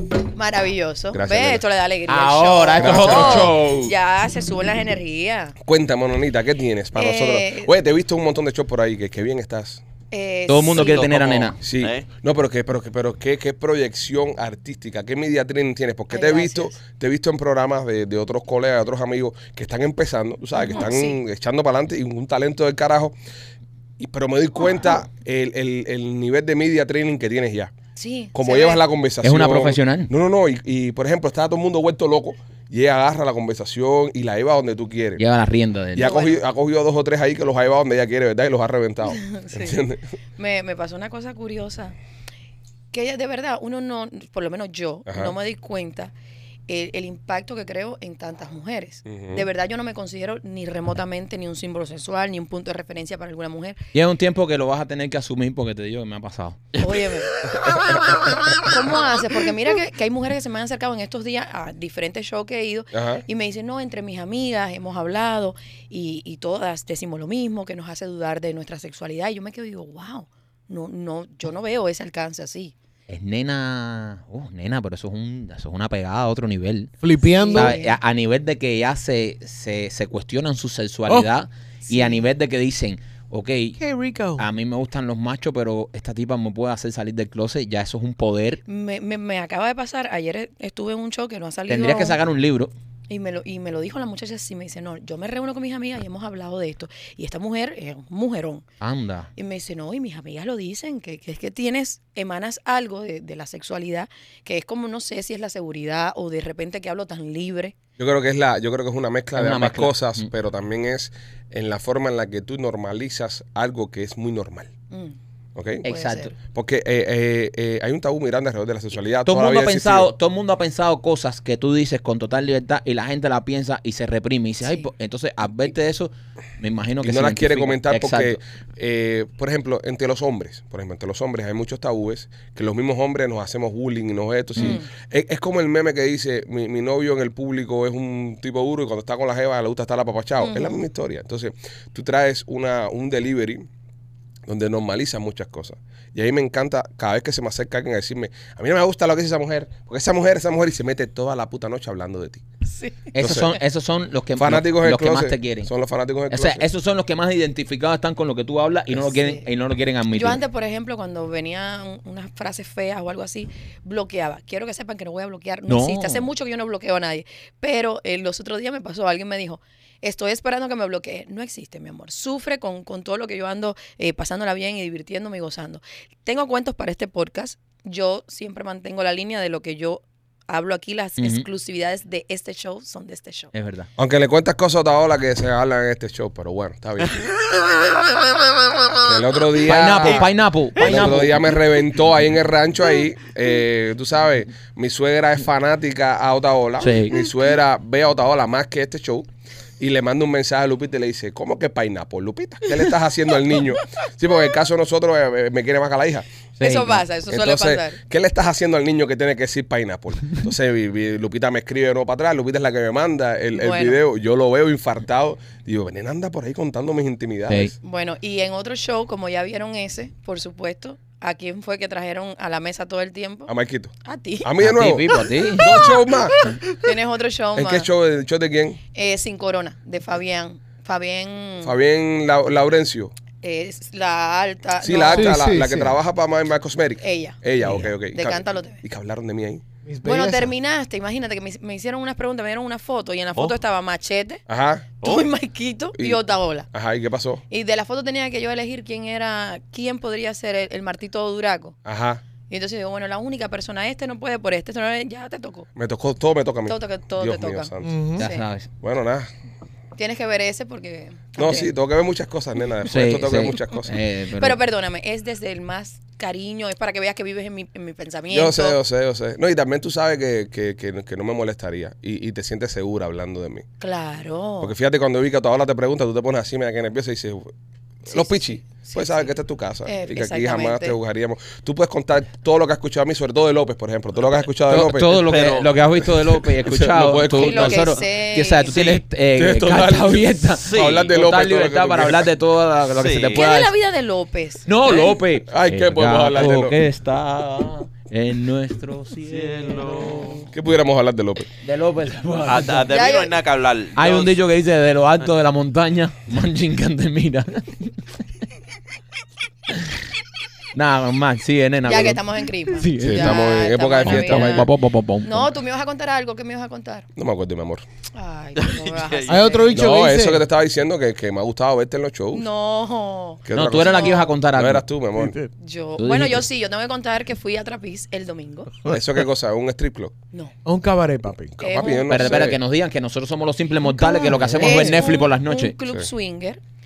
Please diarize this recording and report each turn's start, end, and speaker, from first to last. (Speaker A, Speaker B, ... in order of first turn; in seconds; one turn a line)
Speaker A: 0.3-5.5
Speaker B: 1.1-1.6
Speaker C: 2.1-3.9
Speaker B: 2.8-3.6
Speaker B: 5.6-9.8
Speaker A: 7.0-7.7
Speaker A: 10.1-11.4
Speaker C: 10.5-11.6
Speaker D: 10.7-12.0
Speaker B: 11.6-23.1
Speaker A: 16.1-16.7
Speaker A: 20.6-21.2
Speaker B: 24.0-27.7
Speaker A: 27.9-28.8
Speaker B: 28.3-35.2
Speaker C: 29.2-30.1
Speaker C: 35.2-36.2
Speaker B: 35.9-40.0
Speaker A: 36.0-36.4
Speaker A: 39.0-39.8
Speaker A: 40.4-41.9
Speaker A: 42.9-46.1
Speaker B: 45.1-45.3
Speaker A: 46.7-53.8
Speaker B: 49.0-49.5
Speaker C: 53.9-56.6
Speaker A: 56.8-57.3
Speaker A: 58.6-72.7
Speaker B: 62.9-63.2
Speaker C: 73.1-76.9
Speaker E: 77.0-77.8
Speaker A: 77.3-78.0
Speaker C: 77.5-83.8
Speaker A: 81.9-82.2
Speaker E: 83.8-84.4
Speaker C: 84.3-88.6
Speaker A: 88.7-92.2
Speaker C: 91.7-92.7
Speaker A: 93.1-98.7
Speaker C: 98.8-99.3
Speaker A: 99.3-107.7
Speaker B: 108.0-114.7
Speaker C: 109.3-110.3
Speaker A: 114.9-115.2
Speaker B: 115.5-115.9
Speaker C: 115.8-116.3
Speaker A: 115.9-116.3
Speaker B: 116.5-120.1
Speaker C: 119.2-128.4
Speaker A: 124.6-124.9
Speaker B: 127.0-143.7
Speaker A: 134.6-134.9
Speaker A: 140.4-140.8
Speaker B: 144.5-152.4
Speaker A: 152.7-153.1
Speaker C: 153.1-155.7
Speaker B: 153.2-153.6
Speaker B: 154.3-156.6
Speaker C: 156.3-160.4
Speaker A: 159.1-159.4
Speaker A: 160.1-183.5
Speaker C: 165.7-166.3
Speaker C: 181.2-181.4
Speaker C: 183.5-183.9
Speaker B: 184.0-187.2
Speaker B: 189.0-199.3
Speaker C: 189.6-191.6
Speaker C: 196.8-197.2
Speaker B: 199.8-206.3
Speaker A: 206.6-208.0
Speaker C: 206.6-207.0
Speaker B: 207.3-217.7
Speaker A: 213.5-214.0
Speaker C: 217.5-217.7
Speaker A: 217.8-223.5
Speaker B: 223.5-226.5
Speaker A: 224.0-224.5
Speaker C: 224.6-225.9
Speaker A: 226.7-227.9
Speaker B: 227.5-228.8
Speaker A: 228.9-231.7
Speaker B: 231.6-233.1
Speaker A: 233.4-235.3
Speaker B: 234.8-239.6
Speaker E: 235.1-236.0
Speaker A: 237.0-237.4
Speaker C: 237.6-237.9
Speaker A: 238.1-238.8
Speaker E: 239.8-240.5
Speaker A: 240.0-244.4
Speaker B: 244.5-244.9
Speaker D: 245.0-245.3
Speaker A: 245.0-246.7
Speaker B: 246.7-247.4
Speaker A: 247.5-251.8
Speaker B: 251.8-252.2
Speaker A: 252.5-255.7
Speaker B: 255.8-257.9
Speaker A: 256.7-258.4
Speaker E: 257.8-258.2
Speaker C: 258.1-258.7
Speaker B: 258.8-259.3
Speaker A: 259.9-261.7
Speaker B: 261.4-264.0
Speaker C: 262.8-264.6
Speaker A: 264.4-268.8
Speaker B: 268.3-273.6
Speaker A: 273.8-274.7
Speaker B: 274.6-277.5
Speaker B: 278.0-285.3
Speaker A: 278.1-279.3
Speaker A: 279.9-281.0
Speaker C: 284.7-293.7
Speaker D: 285.2-285.7
Speaker B: 286.2-287.9
Speaker A: 287.3-288.9
Speaker B: 289.3-292.3
Speaker D: 290.6-291.1
Speaker D: 293.0-293.4
Speaker A: 293.3-295.2
Speaker C: 294.6-300.4
Speaker B: 295.5-296.8
Speaker D: 299.3-300.4
Speaker A: 299.9-300.4
Speaker B: 300.5-301.5
Speaker C: 301.6-302.9
Speaker D: 302.4-304.4
Speaker A: 302.9-303.4
Speaker C: 303.9-308.0
Speaker C: 309.7-310.0
Speaker C: 310.7-312.2
Speaker A: 311.8-314.7
Speaker C: 312.7-313.4
Speaker B: 313.0-314.7
Speaker C: 314.0-315.5
Speaker A: 315.2-317.1
Speaker B: 317.1-317.8
Speaker A: 318.1-319.9
Speaker D: 318.6-319.6
Speaker E: 319.3-320.4
Speaker B: 319.7-322.4
Speaker A: 322.3-324.3
Speaker B: 323.4-325.4
Speaker C: 323.5-324.9
Speaker E: 325.2-325.5
Speaker A: 325.6-328.8
Speaker C: 326.0-326.4
Speaker B: 328.9-330.1
Speaker E: 330.6-331.6
Speaker B: 331.6-332.6
Speaker A: 331.6-332.4
Speaker C: 332.0-335.8
Speaker A: 333.8-336.6
Speaker E: 334.4-335.0